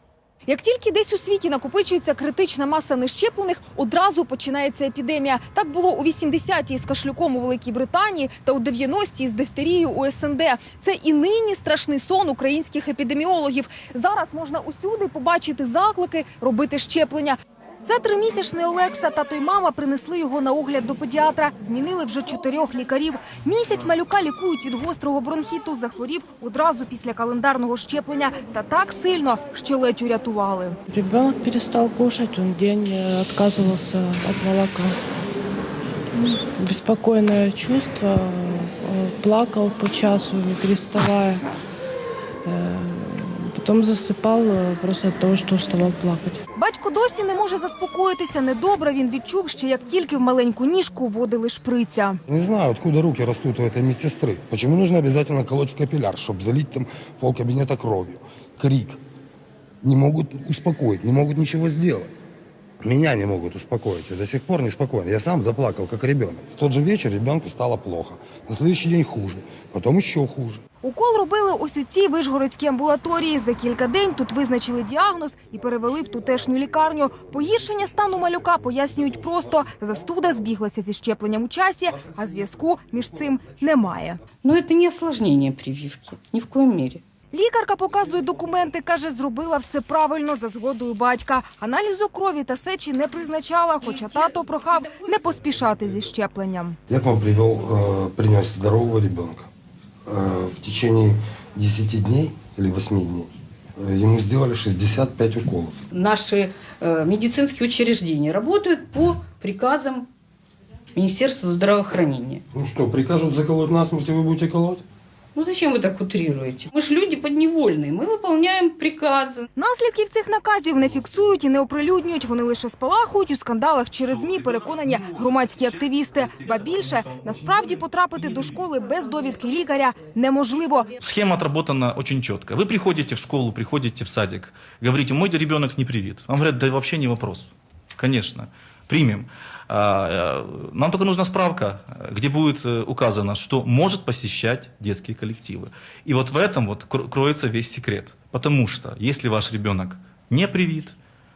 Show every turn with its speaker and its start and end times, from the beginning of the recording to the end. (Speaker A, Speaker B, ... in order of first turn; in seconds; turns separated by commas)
Speaker A: 0.5-30.8, Speaker B: 30.9-35.0, Speaker B: 36.1-41.5, Speaker B: 42.4-46.4, Speaker A: 46.5-52.2, Speaker C: 52.3-59.0, Speaker C: 59.8-62.1, Speaker C: 62.8-70.6, Speaker A: 70.8-84.2, Speaker D: 84.4-87.0, Speaker A: 87.3-96.8, Speaker C: 96.9-99.5, Speaker C: 100.0-105.8, Speaker D: 105.9-110.1, Speaker D: 110.9-112.4, Speaker C: 112.5-114.8, Speaker D: 115.3-119.5, Speaker A: 119.5-130.9, Speaker E: 124.0-127.7, Speaker E: 131.0-151.0